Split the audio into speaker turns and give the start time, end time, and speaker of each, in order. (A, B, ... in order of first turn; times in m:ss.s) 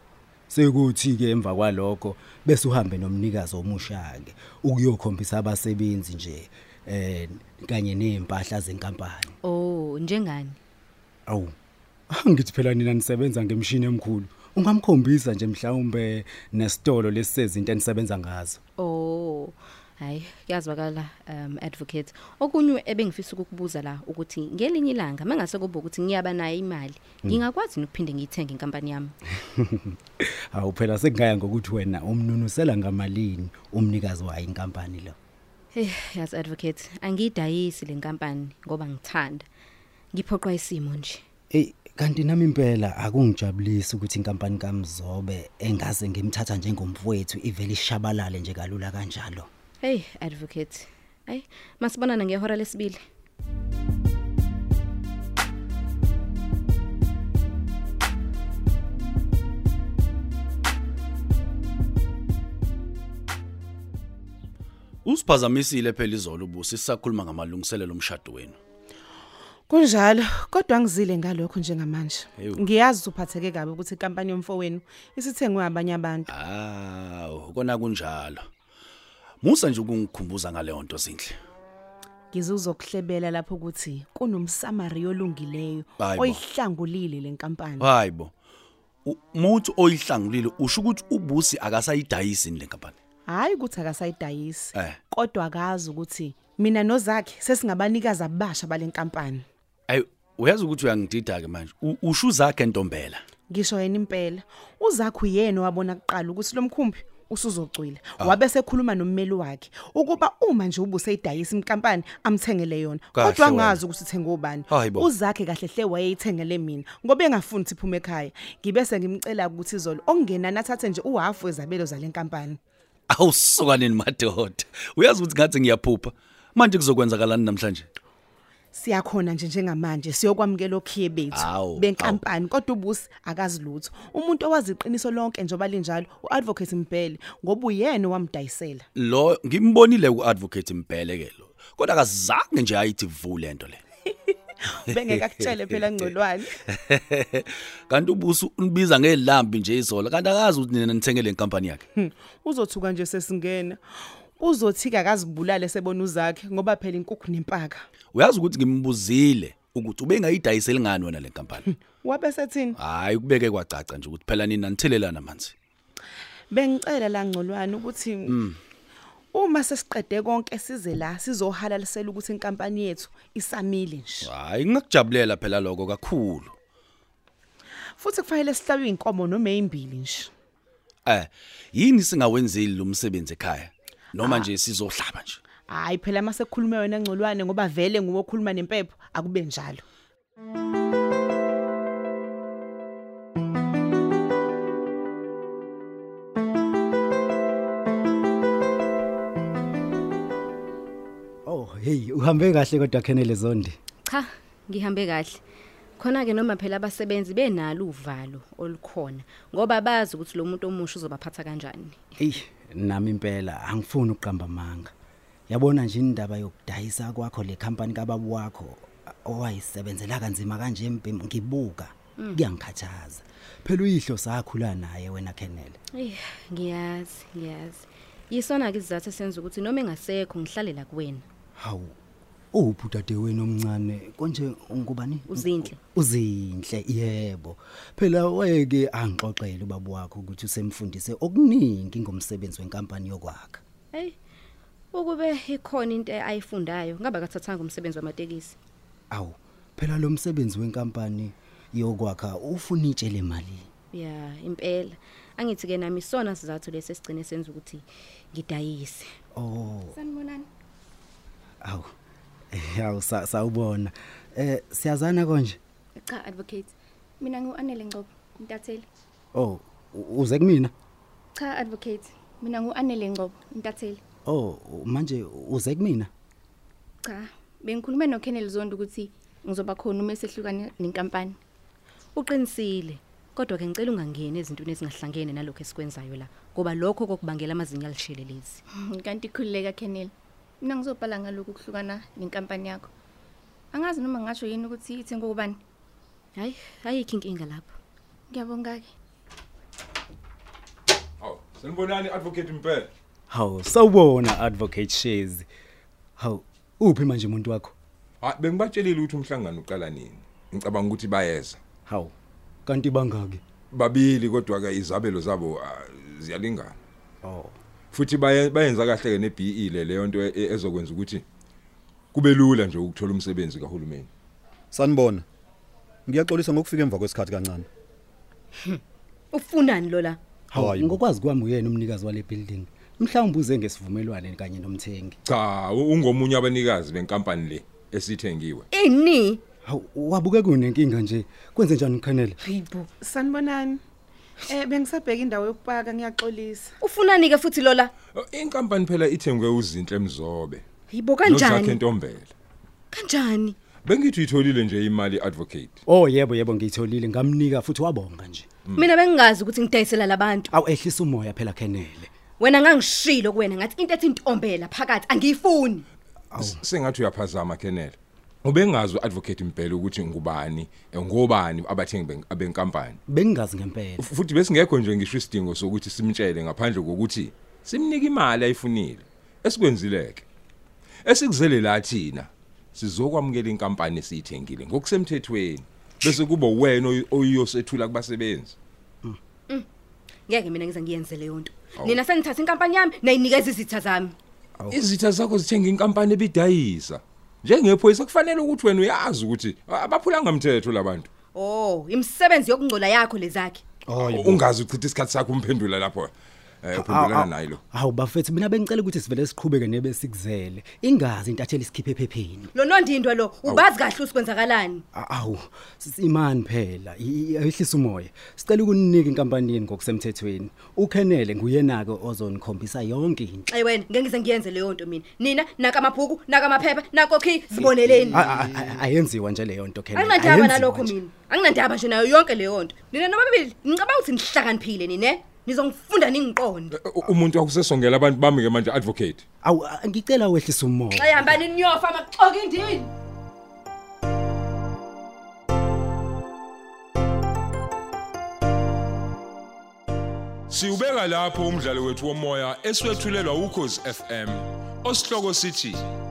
0:00.5-0:09.4 A
0:09.4-0:10.6 B
0:11.3-0:11.5 A
0:12.1-0:18.6 A
0:18.8-0:29.2 B
0:29.4-0:35.2 A
0:35.7-0:39.5 B
0:40.1-0:41.2 B
0:41.5-0:49.5 A
0:49.8-0:53.0 B
1:05.0-1:08.6 C
1:09.7-1:16.3 D
1:12.4-1:12.7 C
1:16.3-1:18.5 C
1:19.4-1:21.4 C
1:22.3-1:27.9 D
1:26.0-1:26.4 C
1:27.8-1:28.3 C
1:29.0-1:33.0 C
1:33.3-1:39.4 D
1:34.7-1:35.0 C
1:39.9-1:43.2 C
1:43.5-2:02.6 D
1:53.1-1:53.8 C
1:54.7-1:55.1 C
2:03.1-2:07.9 C
2:08.7-2:18.9 D
2:11.3-2:12.2 C
2:19.0-2:23.8 C
2:24.7-2:26.5 D
2:24.9-2:31.9 C
2:32.0-2:37.8 D
2:38.1-2:41.7 C
2:41.7-2:42.8 D
2:42.7-2:45.5 C
2:46.5-2:48.4 D
2:48.3-2:48.6 C
2:49.3-2:54.3 D
2:54.2-2:56.6 C
2:58.0-3:00.3 D
3:01.0-3:05.4 C
3:04.2-3:04.5 D
3:05.7-3:09.8 D
3:21.4-3:23.8 A
3:24.0-3:25.4 B
3:26.0-3:32.0 B
3:32.2-3:34.9 A
3:35.5-3:45.8 A
3:45.9-3:51.2 B
3:51.6-3:52.0 A
3:52.5-4:03.6 A
3:55.3-3:55.8 B
4:04.9-4:08.6 B
4:09.1-4:13.7 A
4:13.9-4:19.1 B
4:19.4-4:20.0 A
4:19.9-4:20.5 E
4:21.6-4:21.9 A
4:22.5-4:25.6 A
4:26.0-4:28.9 E
4:29.3-4:30.7 A
4:31.3-4:34.0 E
4:34.3-4:36.1 A
4:37.0-4:41.4 E
4:42.2-4:48.6 B
4:48.8-4:52.9 E
4:53.7-4:55.6 E
4:56.4-4:57.7 B
4:58.3-4:58.9 E
5:01.2-5:02.9 F
5:03.3-5:05.5 A
5:06.2-5:07.7 A
5:08.2-5:11.6 F
5:11.9-5:12.1 A
5:12.7-5:13.4 A
5:13.7-5:16.8 F
5:17.2-5:17.6 A
5:17.9-5:21.2 F
5:22.1-5:24.1 F
5:24.7-5:25.2 G
5:26.1-5:27.7 G
5:29.3-5:30.2 B
5:30.5-5:35.2 A
5:30.5-5:31.0 G
5:35.2-5:38.6 F
5:38.7-5:39.4 B
5:39.6-5:42.4 A
5:42.4-5:42.9 B
5:43.0-5:43.8 D
5:44.5-5:46.7 D
5:46.8-5:47.9 B
5:48.1-5:50.6 F
5:50.9-5:51.8 B
5:51.2-5:52.3 F
5:52.9-5:53.6 B
5:53.8-5:55.8 F
5:55.9-5:58.5 A
5:58.8-6:00.5 B
6:00.5-6:02.1 A
6:02.4-6:05.8 B
6:06.3-6:06.6 A
6:06.4-6:13.0 F
6:13.1-6:14.1 A
6:14.0-6:20.2 F
6:21.0-6:28.6 F
6:30.3-6:34.2 B
6:34.7-6:41.1 F
6:41.3-6:43.6 B
6:43.9-6:46.1 F
6:46.6-6:47.6 F
6:46.7-6:52.5 A
6:52.5-6:54.8 B
6:54.9-7:03.5 A
7:03.5-7:08.3 B
7:08.1-7:11.0 A
7:09.9-7:16.7 B
7:16.7-7:19.2 F
7:19.4-7:21.4 A
7:21.0-7:22.9 B
7:30.5-7:35.8 F